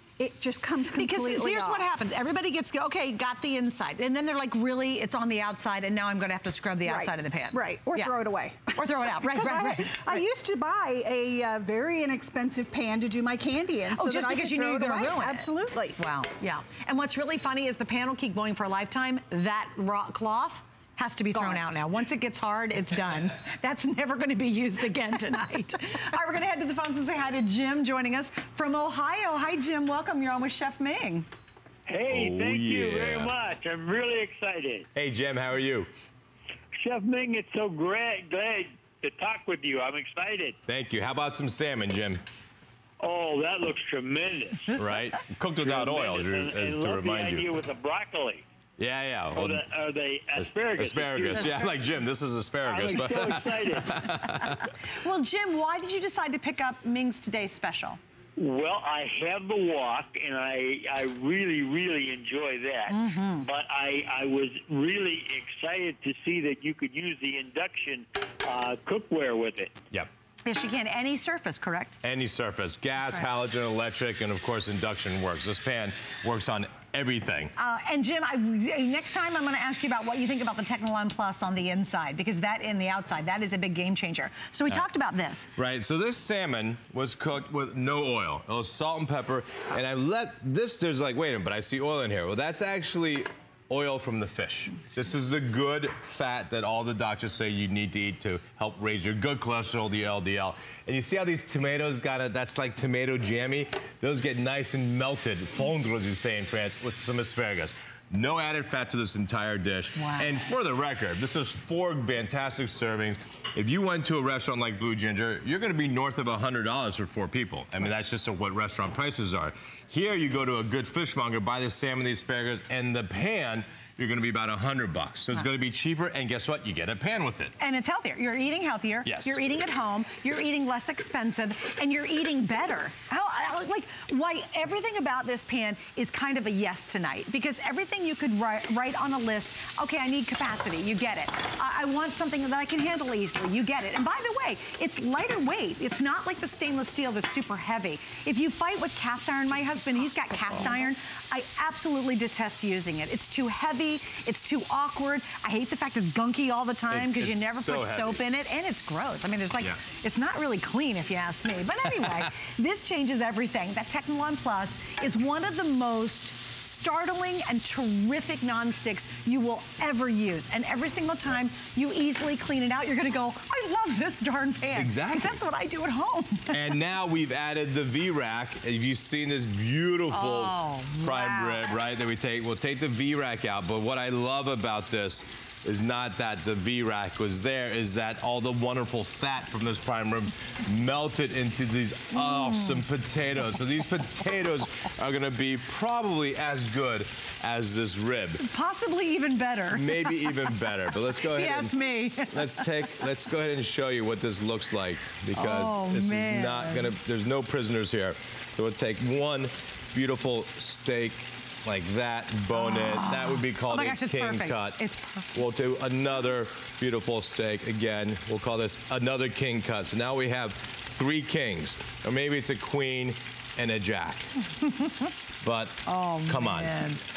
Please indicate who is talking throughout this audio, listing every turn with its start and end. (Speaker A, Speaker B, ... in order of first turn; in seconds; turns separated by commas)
Speaker A: 0.2-1.9, Speaker B: 0.9-8.1, Speaker A: 6.9-16.0, Speaker B: 8.7-10.2, Speaker B: 13.9-31.3, Speaker A: 21.3-21.6, Speaker C: 31.9-34.9, Speaker D: 32.1-33.3, Speaker D: 35.0-35.9, Speaker C: 36.7-40.6, Speaker D: 40.7-42.2, Speaker C: 43.0-44.8, Speaker D: 44.8-47.5, Speaker C: 45.6-48.4, Speaker D: 48.8-49.7, Speaker C: 49.3-51.8, Speaker D: 50.3-54.6, Speaker B: 51.4-51.7, Speaker C: 52.6-54.2, Speaker B: 54.9-58.0, Speaker C: 58.4-69.8, Speaker B: 62.9-63.5, Speaker B: 70.5-72.0, Speaker D: 72.0-77.5, Speaker B: 77.6-85.5, Speaker D: 85.6-127.5, Speaker B: 110.0-110.3, Speaker B: 127.6-176.6, Speaker D: 129.1-129.4, Speaker D: 150.5-150.7, Speaker D: 156.9-158.2, Speaker D: 161.9-162.3, Speaker D: 174.7-175.4, Speaker D: 176.5-198.4, Speaker B: 180.1-181.7, Speaker B: 192.3-192.8, Speaker B: 198.4-200.5, Speaker D: 199.7-214.8, Speaker B: 201.2-202.7, Speaker B: 205.3-206.9, Speaker B: 212.6-215.4, Speaker D: 215.3-224.3, Speaker B: 224.6-224.9, Speaker D: 225.4-226.8, Speaker B: 225.9-227.0